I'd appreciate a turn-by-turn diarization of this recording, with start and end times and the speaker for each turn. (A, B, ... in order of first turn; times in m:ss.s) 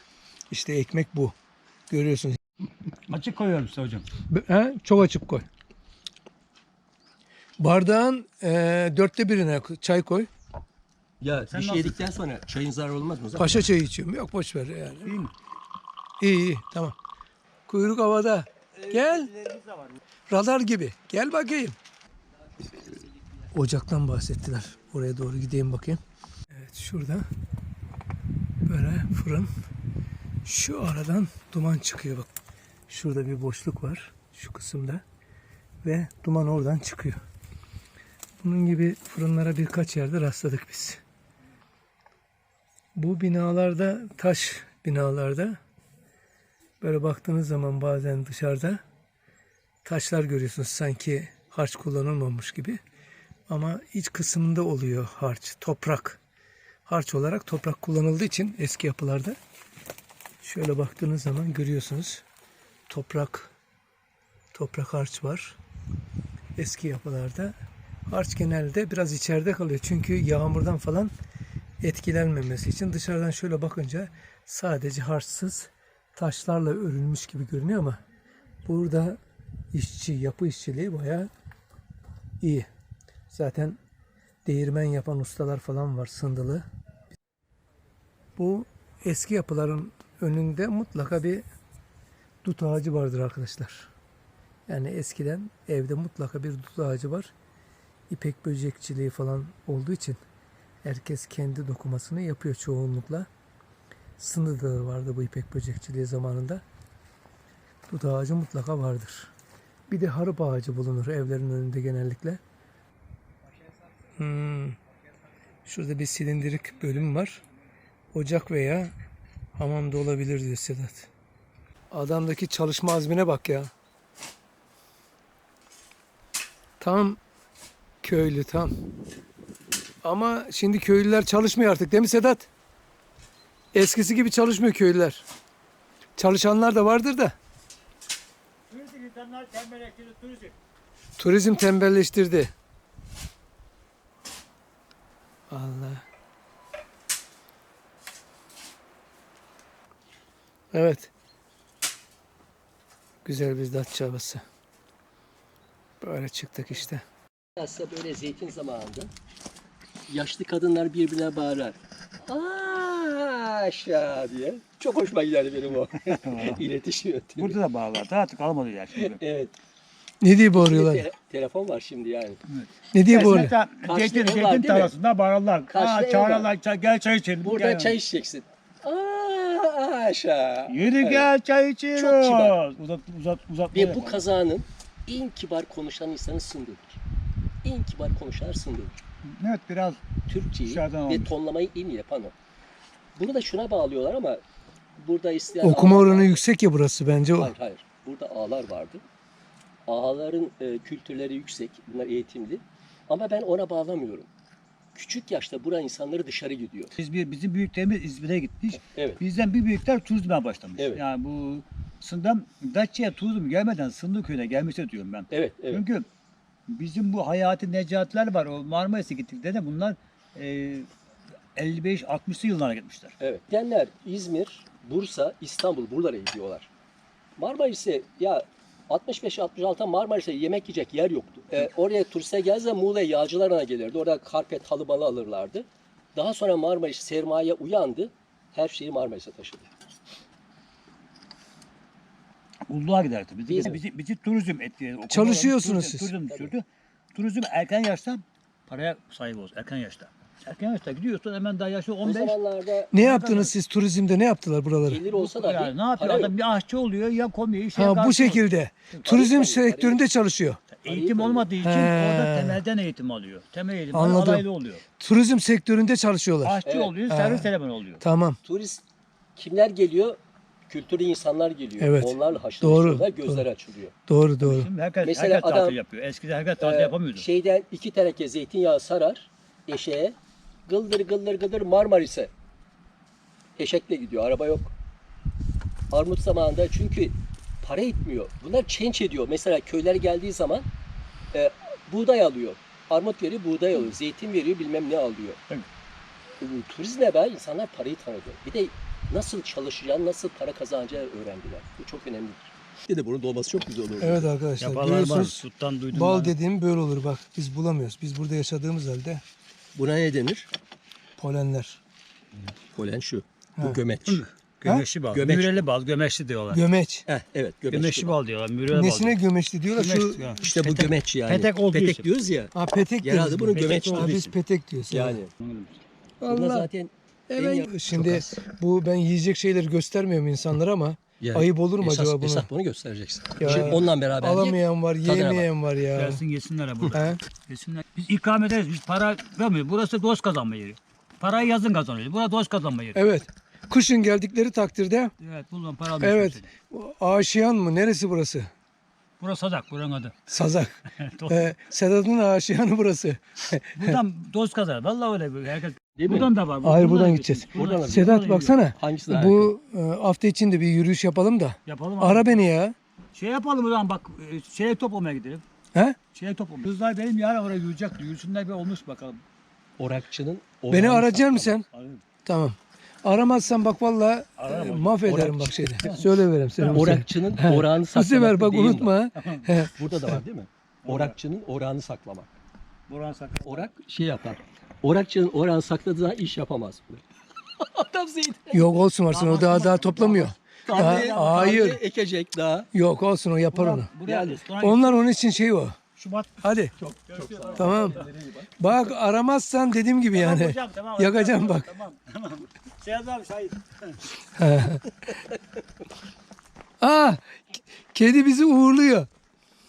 0:00.5-0:01.3 A
0:01.9-0:02.4 A
0:03.1-0:04.1 B
0:04.3-0:05.4 A
0:07.6-0:10.3 A
0:11.2-0:13.7 C
0:11.5-0:12.1 B
0:13.3-0:15.2 A
0:15.0-0:15.3 B
0:16.2-0:17.0 A
0:17.7-0:19.3 A
0:18.7-0:20.0 B
0:20.3-0:21.8 A
0:22.6-0:23.1 C
0:23.5-0:26.0 A
0:26.5-0:27.2 A
0:28.6-0:29.5 A
0:30.4-0:32.3 A
0:32.9-0:35.0 A
0:35.8-0:37.2 A
0:38.4-0:41.0 A
0:43.0-0:45.6 A
0:46.8-0:48.8 A
0:49.8-0:52.8 A
0:53.5-0:56.2 A
0:56.8-0:59.4 A
1:00.4-1:02.2 A
1:02.9-1:03.5 A
1:04.5-1:05.6 A
1:06.6-1:07.5 A
1:08.1-1:11.1 A
1:11.8-1:18.0 A
1:18.6-1:19.2 A
1:19.7-1:21.3 A
1:22.4-1:22.7 A
1:23.3-1:23.8 A
1:24.4-1:26.6 A
1:28.4-1:31.4 A
1:32.4-1:33.9 A
1:34.7-1:37.3 A
1:38.1-1:40.2 A
1:40.8-1:43.3 A
1:44.2-1:46.6 A
1:47.9-1:49.3 A
1:49.9-1:52.4 A
1:54.2-1:54.8 A
1:55.6-1:57.4 A
1:58.1-1:58.9 A
1:59.6-2:01.1 A
2:01.9-2:03.7 A
2:06.8-2:07.2 A
2:08.0-2:08.7 A
2:10.0-2:12.5 A
2:13.7-2:15.2 A
2:16.2-2:17.3 A
2:18.7-2:20.5 B
2:21.2-2:22.5 A
2:25.5-2:26.0 A
2:30.7-2:31.1 A
2:33.2-2:34.4 A
2:36.0-2:37.0 A
2:37.6-2:39.1 C
2:40.1-2:47.6 C
2:46.0-2:46.6 B
2:47.4-2:49.2 B
2:49.0-2:49.5 C
2:50.2-2:51.1 A
2:50.5-2:52.4 C
2:52.5-2:58.0 B
2:52.9-2:53.6 A
2:53.8-2:55.0 C
2:55.7-2:56.5 C
2:57.4-3:01.3 C
3:00.7-3:04.2 B
3:01.9-3:02.6 C
3:03.7-3:07.0 C
3:07.6-3:09.0 C
3:09.2-3:10.0 B
3:10.3-3:12.3 C
3:10.6-3:11.3 B
3:13.2-3:14.4 C
3:15.0-3:16.4 C
3:15.6-3:17.5 A
3:17.4-3:19.0 C
3:19.9-3:24.3 C
3:24.9-3:26.9 C
3:27.0-3:36.1 B
3:28.8-3:29.2 C
3:30.8-3:31.0 C
3:35.3-3:35.8 C
3:36.7-3:40.9 B
3:41.6-3:43.2 B
3:43.2-3:46.7 C
3:47.4-3:59.7 C
4:02.7-4:13.6 B
4:03.5-4:03.8 C
4:05.1-4:06.1 A
4:06.2-4:06.5 C
4:12.0-4:12.9 C
4:12.9-4:15.0 A
4:14.8-4:16.3 C
4:15.1-4:19.1 B
4:17.7-4:20.6 A
4:19.0-4:20.0 C
4:20.7-4:24.8 B
4:20.8-4:21.5 C
4:21.6-4:22.6 A
4:23.9-4:24.5 A
4:25.0-4:28.4 A
4:26.4-4:28.0 B
4:26.6-4:27.0 C
4:28.4-4:28.8 C
4:29.4-4:33.9 C
4:31.8-4:33.5 A
4:34.1-4:34.7 A
4:34.4-4:37.3 B
4:35.0-4:35.8 C
4:36.6-4:42.3 C
4:43.6-4:44.7 C
4:45.9-4:50.7 C
4:51.3-4:55.4 C
4:56.4-5:04.3 C
5:04.0-5:09.2 A
5:04.6-5:06.4 B
5:09.8-5:10.5 C
5:11.2-5:11.8 A
5:12.7-5:14.2 C
5:14.0-5:16.6 B
5:15.1-5:15.6 C
5:16.5-5:17.1 A
5:17.0-5:18.2 C
5:17.7-5:19.2 B
5:18.7-5:20.4 A
5:19.7-5:22.1 B
5:20.4-5:24.2 C
5:22.5-5:25.2 A
5:23.5-5:24.4 B
5:24.9-5:25.3 C
5:25.4-5:25.8 B
5:26.2-5:26.7 A
5:26.2-5:28.4 C
5:27.3-5:32.5 A
5:31.2-5:35.5 C
5:33.4-5:36.2 A
5:33.4-5:33.8 B
5:35.9-5:43.0 B
5:36.9-5:37.2 A
5:42.9-5:45.1 A
5:45.2-5:46.5 B
5:46.0-5:48.5 A
5:49.2-5:50.1 B
5:50.3-5:54.0 A
5:51.0-5:51.6 B
5:53.8-5:58.6 B
5:56.0-5:56.3 C
5:56.6-6:02.7 A
5:57.5-5:58.1 C
5:58.8-5:59.5 C
6:01.6-6:02.4 B
6:03.1-6:05.4 B
6:06.1-6:09.2 B
6:09.8-6:11.6 C
6:10.7-6:11.7 A
6:11.7-6:12.0 B
6:12.2-6:20.2 A
6:14.4-6:15.1 B
6:15.0-6:16.0 C
6:15.7-6:16.0 B
6:16.6-6:17.0 B
6:16.7-6:19.0 C
6:19.1-6:19.6 B
6:19.7-6:22.3 C
6:20.8-6:21.2 B
6:22.9-6:23.7 B
6:23.4-6:27.0 C
6:27.6-6:28.8 C
6:28.5-6:31.8 A
6:29.1-6:31.5 B
6:30.0-6:32.7 C
6:32.7-6:33.9 A
6:33.5-6:35.0 B
6:34.0-6:34.4 C
6:34.6-6:35.8 A
6:36.0-6:36.4 B
6:36.4-6:36.7 A
6:36.8-6:38.5 C
6:37.1-6:38.1 B
6:37.6-6:38.0 A
6:38.6-6:41.7 A
6:40.1-6:44.0 B
6:44.4-6:44.8 A
6:46.8-6:49.1 A